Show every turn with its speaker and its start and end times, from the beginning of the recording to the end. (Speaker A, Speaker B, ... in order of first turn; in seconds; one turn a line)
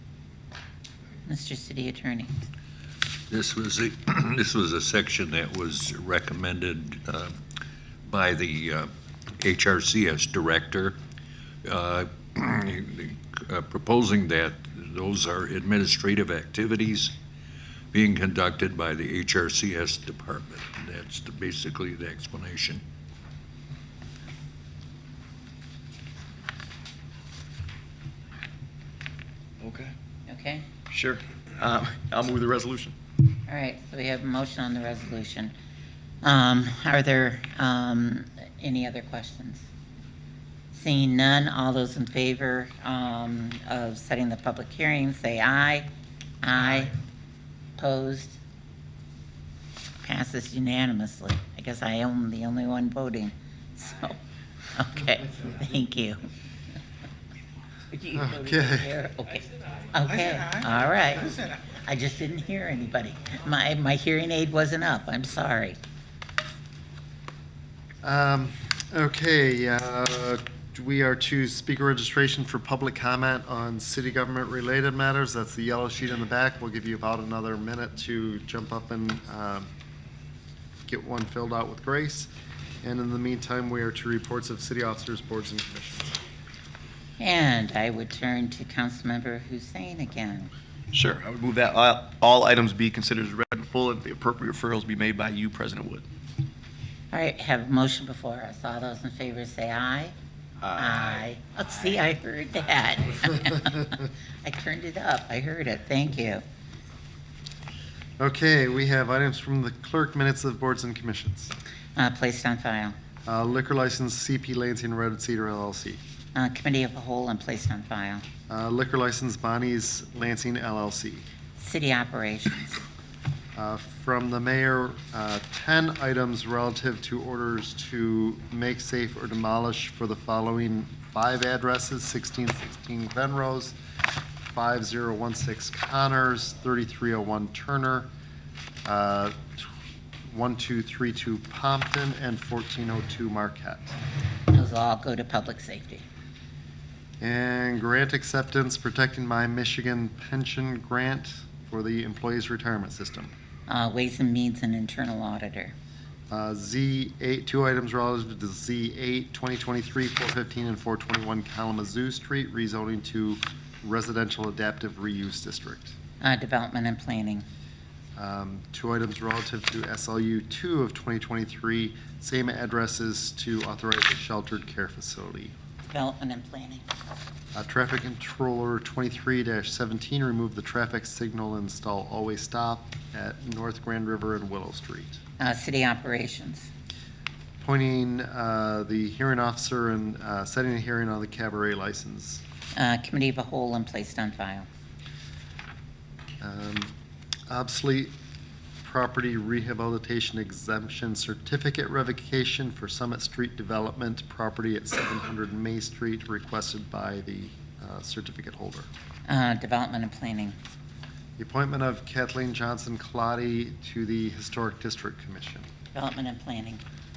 Speaker A: 1.2-2.3
Speaker B: 3.3-7.3
Speaker B: 8.1-11.0
Speaker B: 11.6-17.1
Speaker B: 17.9-22.8
Speaker C: 29.6-29.9
Speaker A: 30.3-30.6
Speaker C: 30.9-32.9
Speaker A: 33.5-35.5
Speaker A: 36.2-39.6
Speaker A: 40.7-45.9
Speaker A: 46.4-46.9
Speaker A: 47.8-48.4
Speaker A: 50.0-54.2
Speaker A: 54.8-56.2
Speaker A: 57.9-65.8
Speaker D: 58.2-58.9
Speaker D: 68.0-79.7
Speaker D: 80.9-82.3
Speaker D: 82.8-86.2
Speaker A: 87.2-90.5
Speaker C: 90.9-96.1
Speaker A: 97.1-100.1
Speaker A: 100.7-106.4
Speaker D: 108.2-111.5
Speaker A: 112.0-112.9
Speaker D: 113.2-116.0
Speaker A: 116.3-118.2
Speaker D: 118.5-121.2
Speaker A: 121.6-122.8
Speaker D: 123.5-133.8
Speaker D: 134.5-138.1
Speaker D: 138.8-139.7
Speaker D: 140.2-144.0
Speaker A: 144.5-146.0
Speaker D: 147.2-153.3
Speaker A: 153.7-155.7
Speaker D: 156.3-165.9
Speaker A: 166.2-167.5
Speaker D: 168.2-175.5
Speaker A: 175.9-176.8
Speaker D: 177.5-185.2
Speaker A: 185.4-186.7
Speaker D: 187.6-192.4
Speaker A: 192.8-194.7
Speaker D: 196.4-196.9
Speaker D: 197.5-198.1
Speaker D: 198.8-208.9
Speaker A: 209.3-210.6
Speaker D: 211.4-215.7
Speaker A: 215.9-216.8